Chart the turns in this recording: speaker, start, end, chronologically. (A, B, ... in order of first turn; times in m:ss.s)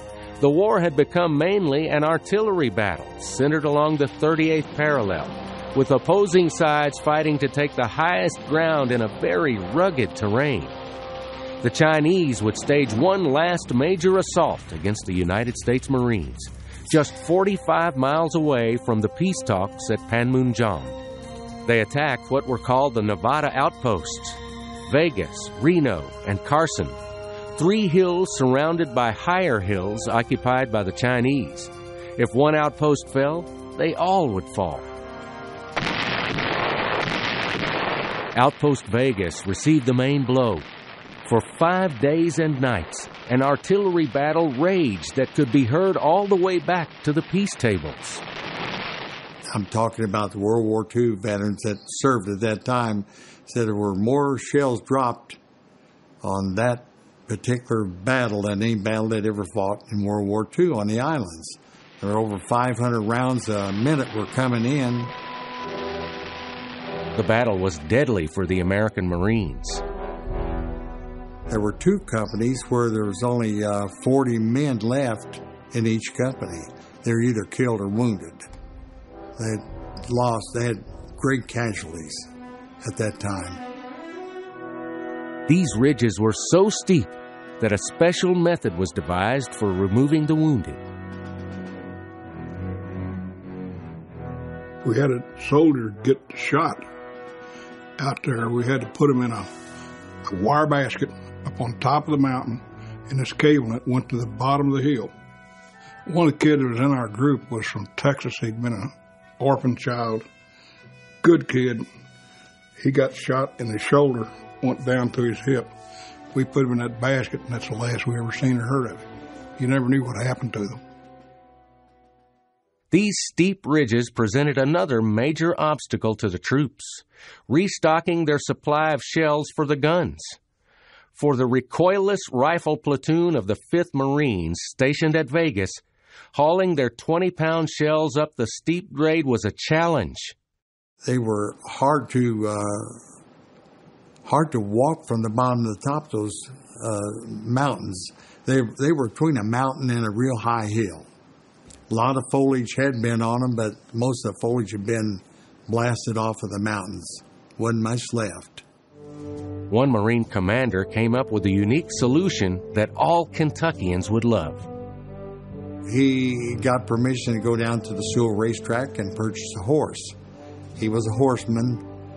0:00.4-0:10.8 A
0:11.6-0:21.0 A
0:21.6-0:27.0 A
0:27.6-0:34.9 A
0:38.3-0:40.7 A
0:41.2-0:48.2 A
0:49.5-0:55.4 B
0:56.2-1:05.1 B
1:07.1-1:09.8 A
1:11.5-1:18.4 B
1:19.4-1:22.3 B
1:22.8-1:23.6 B
1:25.5-1:30.8 A
1:34.8-1:36.8 C
1:38.0-1:39.5 C
1:40.3-1:45.1 C
1:46.0-1:50.2 C
1:51.2-1:51.8 C
1:52.8-1:55.7 C
1:56.3-1:59.0 C
1:59.6-2:00.8 C
2:02.9-2:10.4 A
2:11.1-2:15.8 A
2:16.3-2:20.3 A
2:21.0-2:23.0 B
2:24.2-2:31.1 B
2:31.9-2:38.6 B
2:39.7-2:44.7 A
2:45.8-2:50.2 B
2:50.8-2:51.8 B